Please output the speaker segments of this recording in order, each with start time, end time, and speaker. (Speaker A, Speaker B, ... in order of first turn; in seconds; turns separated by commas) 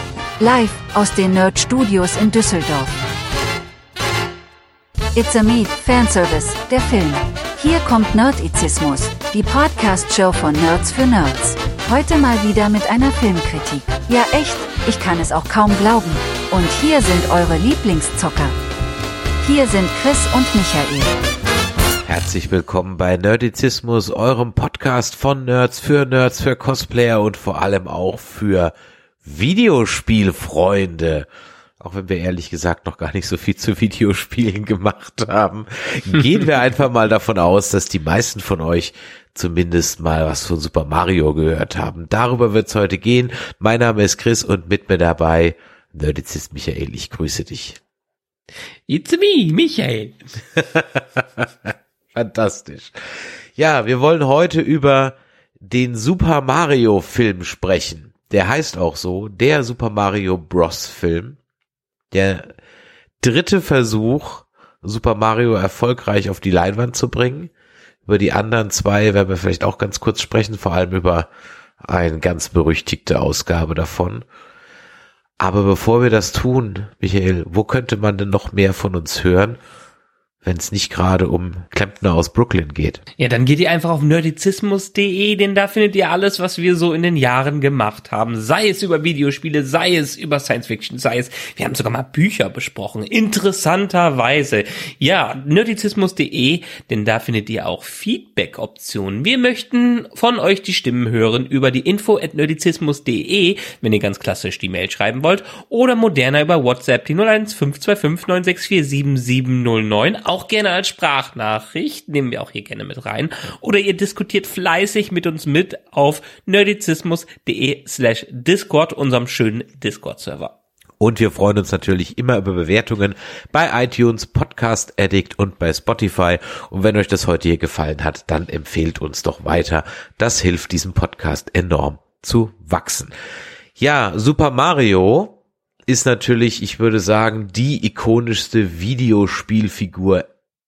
Speaker A: 0.4-2.9, Speaker A: 5.2-18.6, Speaker A: 19.4-21.1, Speaker B: 22.1-31.3, Speaker B: 31.8-47.8, Speaker C: 48.9-50.2, Speaker B: 50.5-61.4, Speaker B: 62.1-62.5, Speaker B: 63.2-67.5, Speaker B: 68.1-71.3, Speaker B: 71.8-74.2, Speaker B: 75.4-79.6, Speaker B: 80.4-83.0, Speaker C: 83.2-120.5, Speaker B: 121.0-133.1, Speaker B: 133.8-140.3